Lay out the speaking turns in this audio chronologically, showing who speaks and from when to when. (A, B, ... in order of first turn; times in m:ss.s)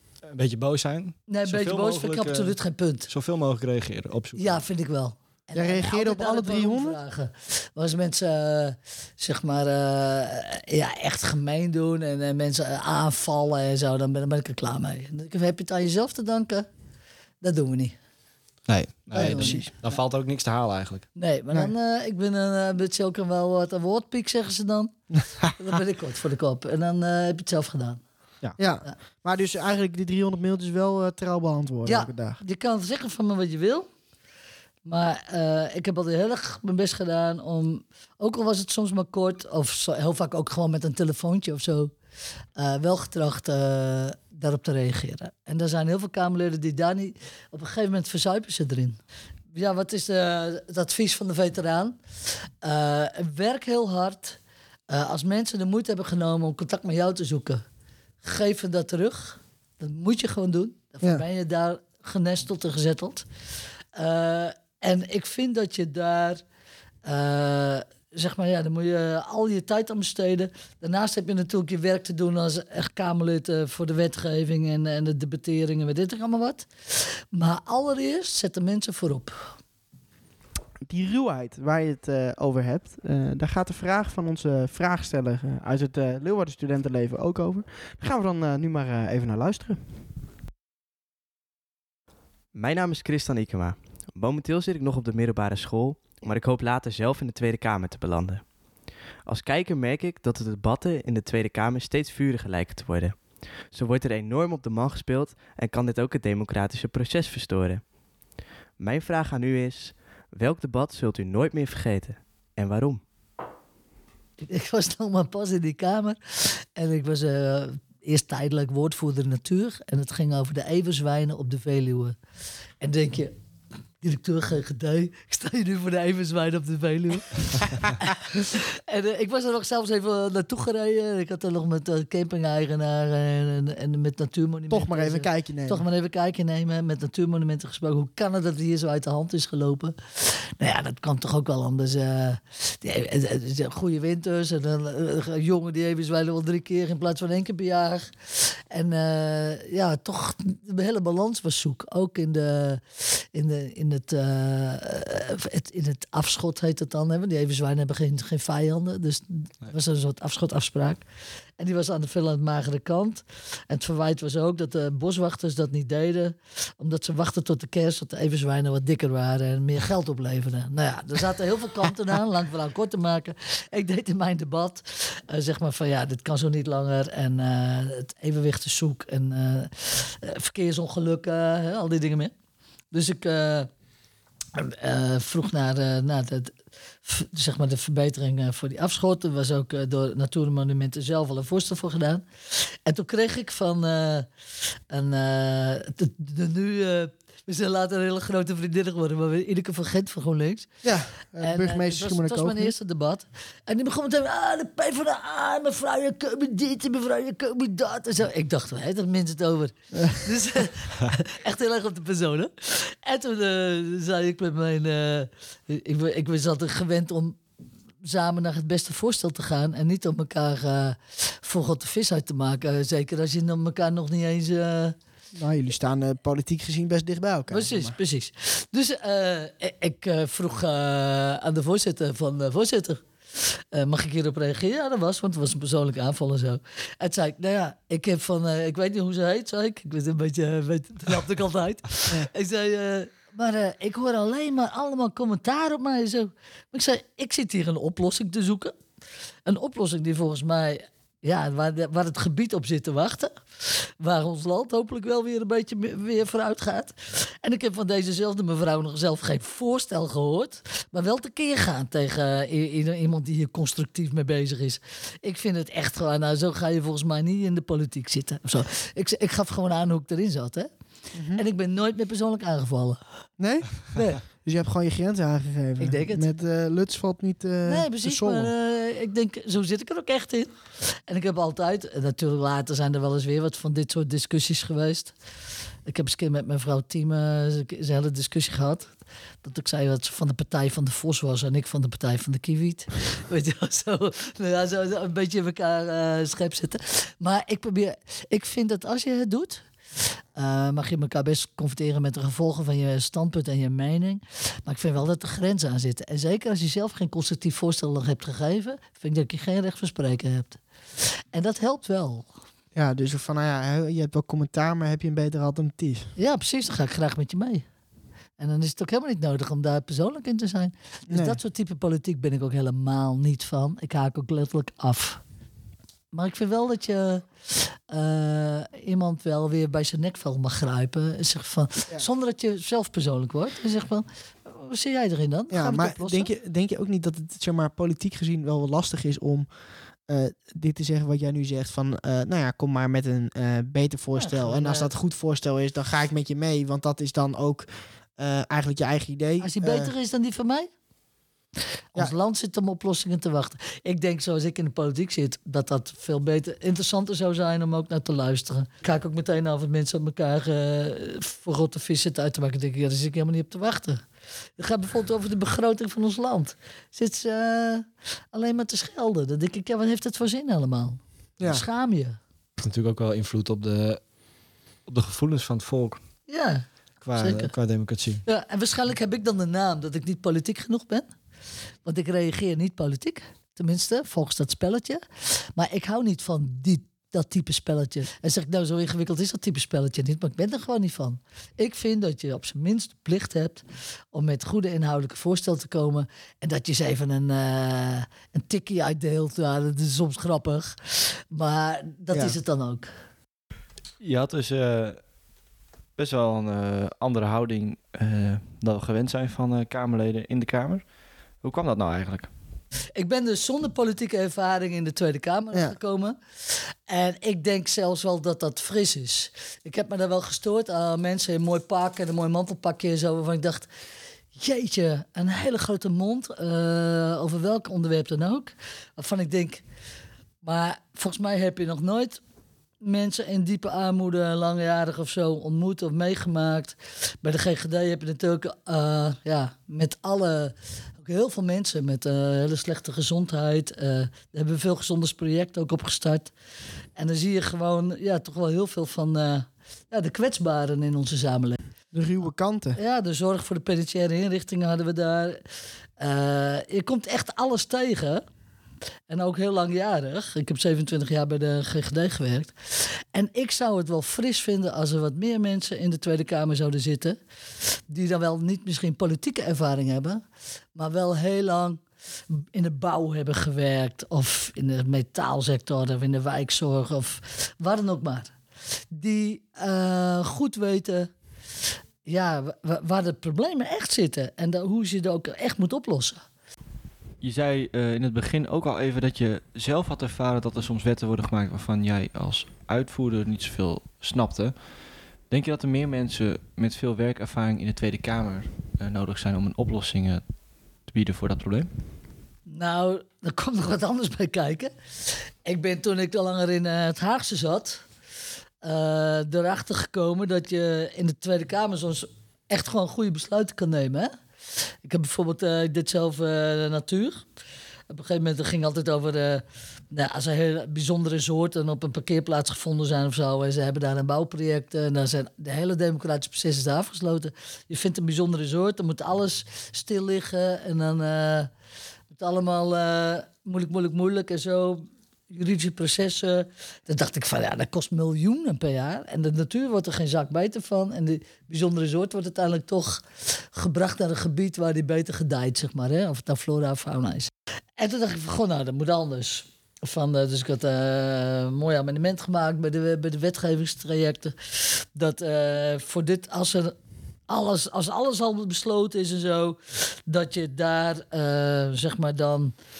0:00.2-0:04.6 A
0:01.3-0:03.1 B
0:04.3-0:16.6 B
0:05.5-0:07.0 C
0:17.4-0:18.0 B
0:18.7-0:21.1 A
0:19.1-0:20.0 B
0:19.1-0:19.7 C
0:21.2-0:25.0 B
0:25.5-0:28.0 B
0:28.6-0:32.4 C
0:31.8-0:33.9 B
0:34.8-0:41.9 B
0:42.6-0:49.0 B
0:49.5-0:52.0 B
0:52.6-0:54.4 B
0:54.9-0:57.6 B
0:58.2-1:03.2 B
1:03.9-1:06.4 B
1:07.0-1:19.5 B
1:20.8-1:29.8 C
1:32.5-1:47.9 D
1:48.8-1:53.0 D
1:54.4-2:02.2 B
2:02.8-2:03.3 B
2:04.0-2:41.0 B
2:14.7-2:15.8 C
2:41.6-3:02.3 B
3:02.9-3:03.7 B
3:04.5-3:14.3 B
3:14.9-3:20.8 B
3:20.8-3:22.7 C
3:21.4-3:37.4 B
3:29.9-3:30.2 C
3:38.0-3:45.0 B
3:45.3-3:48.0 C
3:47.5-4:08.8 B
4:09.4-4:30.7 B
4:31.1-4:31.4 C
4:31.3-4:33.0 B
4:33.4-4:38.5 C
4:33.9-4:34.2 B
4:35.8-4:36.3 B
4:37.6-4:45.1 B
4:45.8-5:12.3 B
5:12.7-5:16.1 C
5:16.2-5:17.6 B
5:18.4-5:25.2 B
5:21.1-5:21.4 C
5:26.1-5:36.3 B
5:35.5-5:49.9 C
5:44.2-5:44.9 B
5:49.4-5:50.7 B
5:51.9-6:04.0 B
6:04.6-6:12.2 B
6:12.6-6:14.1 A
6:14.8-6:16.0 A
6:16.3-6:17.5 B
6:17.0-6:18.2 A
6:18.2-6:21.1 B
6:21.8-6:42.9 B
6:42.1-6:42.4 C
6:44.0-6:45.0 E
6:46.0-6:50.9 E
6:51.4-6:52.3 E
6:53.0-7:03.7 B
7:04.3-7:09.6 B
7:10.4-7:12.2 B
7:12.8-7:26.3 B
7:27.0-7:31.6 B
7:31.9-7:32.8 C
7:32.8-7:35.4 B
7:36.0-7:38.2 B
7:39.1-7:47.2 B
7:47.7-7:50.2 B
7:50.8-7:58.3 B
7:58.9-8:01.1 B
8:02.0-8:06.2 B
8:07.2-8:14.6 E
8:15.3-8:20.2 E
8:20.8-8:21.7 E
8:22.5-8:24.7 B
8:25.4-8:27.8 B
8:28.6-8:34.1 B
8:34.8-8:37.2 B
8:37.9-8:51.5 B
8:52.1-9:16.7 B
9:17.3-9:22.5 B